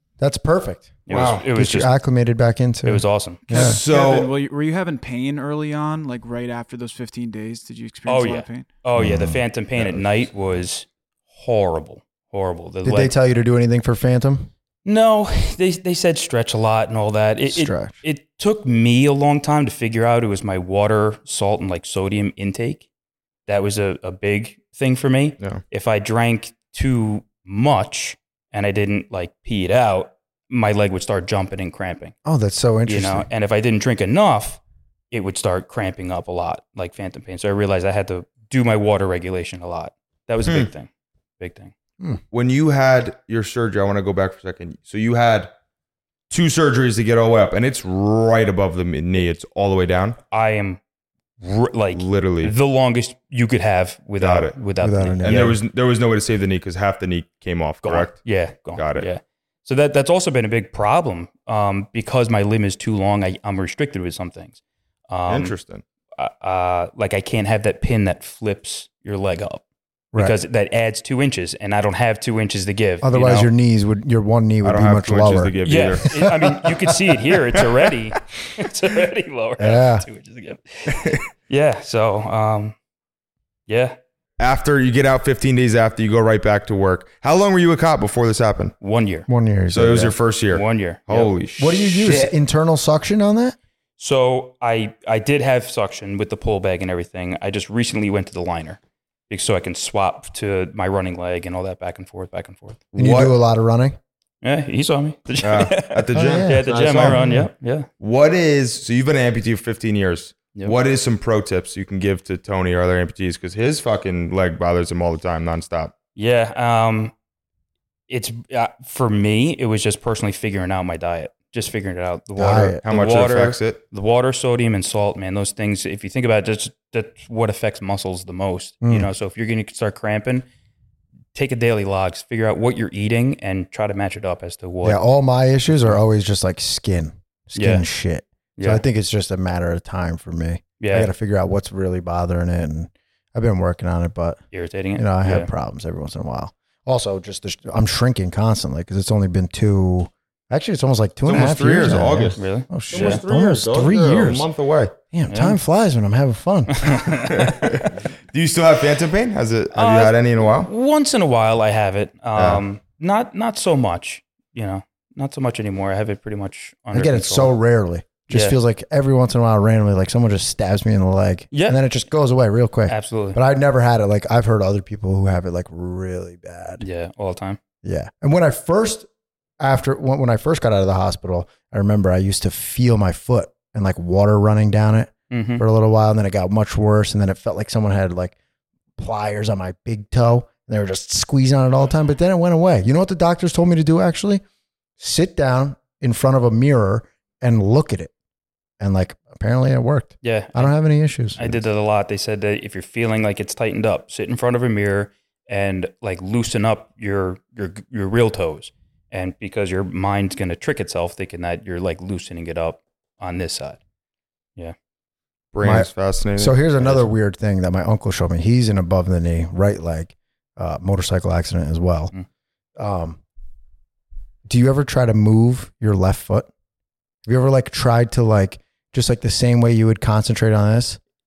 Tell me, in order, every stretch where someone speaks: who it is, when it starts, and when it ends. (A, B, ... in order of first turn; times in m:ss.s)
0:00.2-0:03.8 A
0:01.1-0:01.9 B
0:01.1-0:01.4 C
0:02.8-0:03.4 B
0:03.5-0:04.3 C
0:03.5-0:08.7 D
0:08.1-0:13.1 B
0:09.0-0:09.4 A
0:12.8-0:14.5 A
0:14.8-0:22.9 B
0:17.5-0:18.0 A
0:23.5-0:32.1 B
0:32.2-0:33.3 A
0:32.9-0:41.7 B
0:42.3-0:45.5 C
0:46.3-0:50.2 C
0:50.3-0:50.8 B
0:51.4-0:55.4 B
0:52.0-0:52.5 C
0:54.2-0:54.6 C
0:54.8-0:55.6 A
0:55.2-0:58.2 C
0:57.8-1:05.6 B
0:58.8-0:59.1 C
1:05.3-1:05.8 C
1:06.2-1:09.6 B
1:10.2-1:13.5 B
1:13.0-1:15.6 A
1:14.6-1:16.5 C
1:15.6-1:22.8 B
1:19.6-1:20.0 A
1:23.7-1:24.0 B
1:24.4-1:28.8 C
1:28.8-1:29.3 B
1:29.3-1:30.1 A
1:29.7-1:31.8 C
1:30.5-1:31.3 B
1:31.6-1:33.6 A
1:34.0-1:42.8 B
1:43.0-1:43.3 C
1:43.0-1:44.0 A
1:44.4-1:47.9 B
1:45.4-1:47.2 C
1:46.1-1:47.5 A
1:48.0-1:55.9 C
1:56.2-1:57.1 B
1:58.1-2:10.5 B
2:02.4-2:02.8 A
2:02.8-2:03.8 C
2:08.8-2:09.1 A
2:11.3-2:15.0 B
2:14.8-2:24.4 A
2:17.6-2:17.8 B
2:18.6-2:18.8 B
2:20.8-2:21.1 B
2:24.5-2:25.5 B
2:25.0-2:34.5 A
2:31.3-2:34.9 C
2:32.3-2:33.2 B
2:35.1-2:37.2 A
2:35.3-2:35.6 B
2:36.8-2:37.5 B
2:37.3-2:40.7 C
2:39.7-2:47.6 B
2:42.4-2:42.6 C
2:46.9-2:56.8 A
2:48.3-2:48.6 B
2:51.5-2:51.8 B
2:52.9-2:53.4 B
2:56.8-2:57.6 B
2:57.8-2:59.1 A
2:59.6-3:08.4 A
3:05.3-3:05.6 B
3:09.0-3:14.4 A
3:15.0-3:18.1 A
3:18.8-3:21.6 A
3:20.2-3:20.8 B
3:21.4-3:33.8 B
3:35.5-3:37.0 C
3:35.6-3:42.1 A
3:42.8-3:43.2 A
3:44.5-3:46.5 A
3:47.3-3:51.0 A